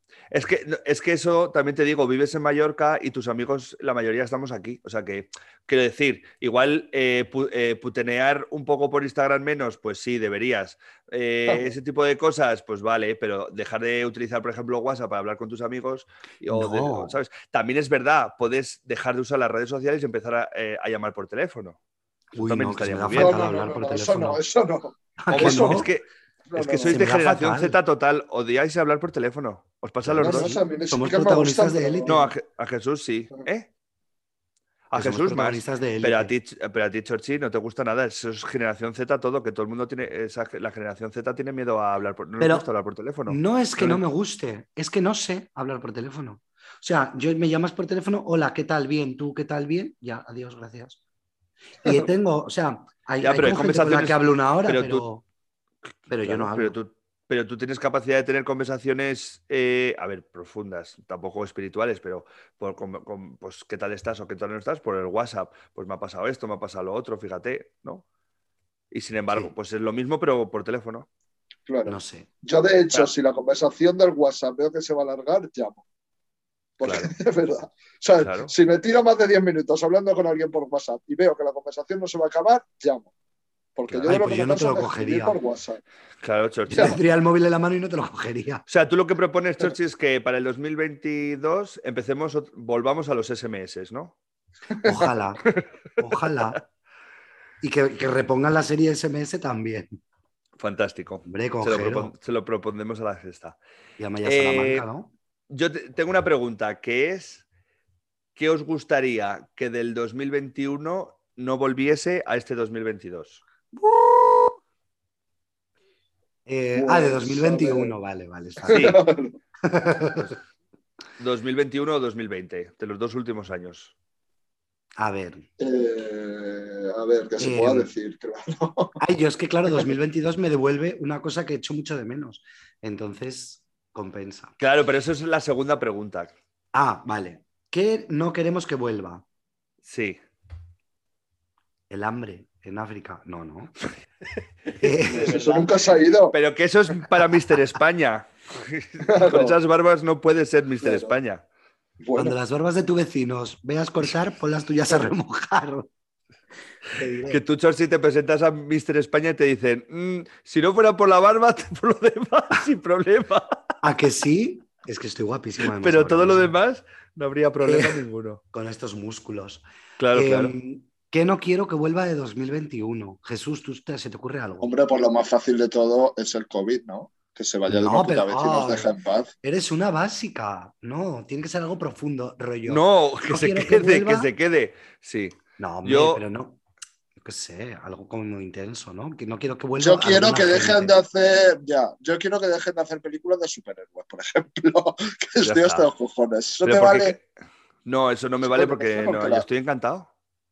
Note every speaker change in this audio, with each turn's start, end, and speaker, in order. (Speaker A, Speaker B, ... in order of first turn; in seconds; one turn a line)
Speaker A: 0.3-21.8
Speaker B: 16.5-17.2
Speaker B: 22.3-24.4
Speaker A: 22.4-23.4
Speaker C: 23.1-25.9
Speaker B: 25.2-25.9
Speaker A: 25.3-30.5
Speaker C: 26.5-27.0
Speaker B: 26.9-27.8
Speaker B: 30.0-32.3
Speaker C: 30.2-32.2
Speaker A: 32.1-33.7
Speaker A: 34.9-44.0
Speaker B: 34.9-36.3
Speaker B: 42.4-42.7
Speaker B: 43.3-51.0
Speaker B: 51.8-55.2
Speaker A: 53.2-55.0
Speaker B: 56.1-56.8
Speaker A: 56.2-68.0
Speaker A: 68.9-71.1
Speaker C: 71.7-75.8
Speaker B: 71.8-72.3
Speaker C: 76.8-83.1
Speaker A: 76.8-77.1
Speaker A: 78.2-78.5
Speaker C: 83.8-85.8
Speaker A: 83.9-84.1
Speaker B: 84.0-85.3
Speaker A: 86.2-87.0
Speaker B: 86.7-88.6
Speaker A: 88.7-94.1
Speaker B: 94.8-95.4
Speaker A: 95.4-96.6
Speaker B: 96.0-96.6
Speaker B: 97.6-100.0
Speaker A: 100.6-103.6
Speaker B: 101.2-102.1
Speaker B: 104.0-105.1
Speaker A: 104.2-104.9
Speaker A: 105.5-107.4
Speaker A: 108.3-113.4
Speaker B: 113.7-114.5
Speaker B: 116.5-119.0
Speaker C: 116.7-117.9
Speaker A: 118.7-119.0
Speaker C: 118.7-119.3
Speaker B: 119.6-120.3
Speaker A: 121.2-123.9
Speaker B: 125.0-125.5
Speaker C: 125.6-129.0
Speaker B: 127.4-127.9
Speaker B: 129.0-134.5
Speaker A: 134.6-136.3
Speaker B: 136.7-139.2
Speaker A: 139.8-140.2
Speaker B: 141.9-143.7
Speaker A: 144.7-145.7
Speaker B: 144.8-145.4
Speaker C: 145.1-146.3
Speaker A: 146.3-151.4
Speaker C: 149.0-149.6
Speaker C: 150.8-151.1
Speaker C: 152.0-152.3
Speaker B: 152.1-155.9
Speaker B: 156.9-157.4
Speaker A: 157.3-163.6
Speaker B: 163.8-166.5
Speaker A: 165.6-168.4
Speaker B: 167.6-174.7
Speaker A: 170.0-170.5
Speaker C: 174.6-179.3
Speaker B: 177.7-184.3
Speaker A: 182.7-186.2
Speaker B: 185.6-186.6
Speaker B: 187.2-191.0
Speaker C: 189.8-197.2
Speaker A: 195.4-195.9
Speaker A: 196.6-197.2
Speaker A: 197.8-200.1
Speaker C: 198.4-199.5